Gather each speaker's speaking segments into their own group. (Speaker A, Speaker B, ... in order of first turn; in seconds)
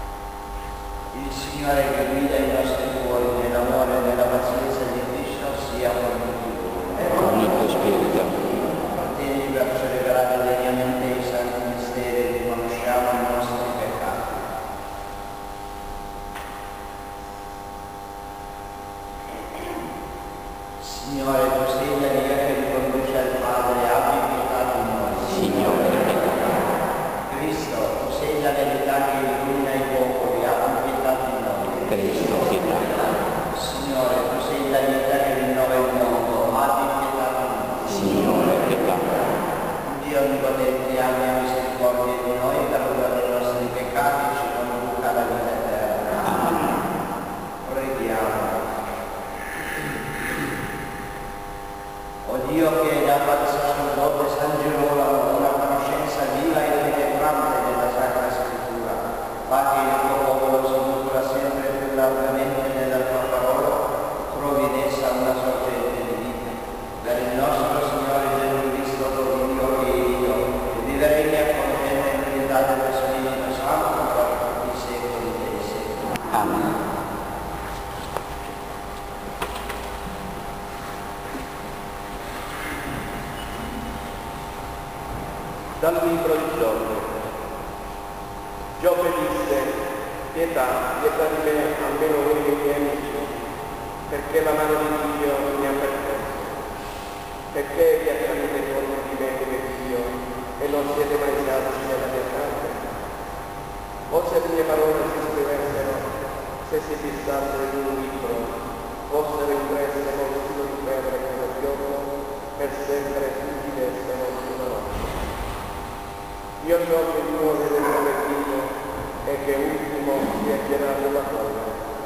Speaker A: 1.1-7.5, 8.9-14.3, 20.8-25.4, 27.3-31.9, 33.5-37.9, 39.8-46.3, 47.6-48.7, 52.2-76.1
Speaker B: 7.1-8.3, 25.3-26.6, 31.9-32.9, 37.9-39.0, 46.3-46.7, 76.3-76.7
Speaker C: 85.8-87.2, 88.8-89.8, 90.3-93.3, 94.1-96.5, 97.5-102.8, 104.1-106.0, 106.6-108.5, 109.1-115.1, 116.6-118.7, 119.2-121.8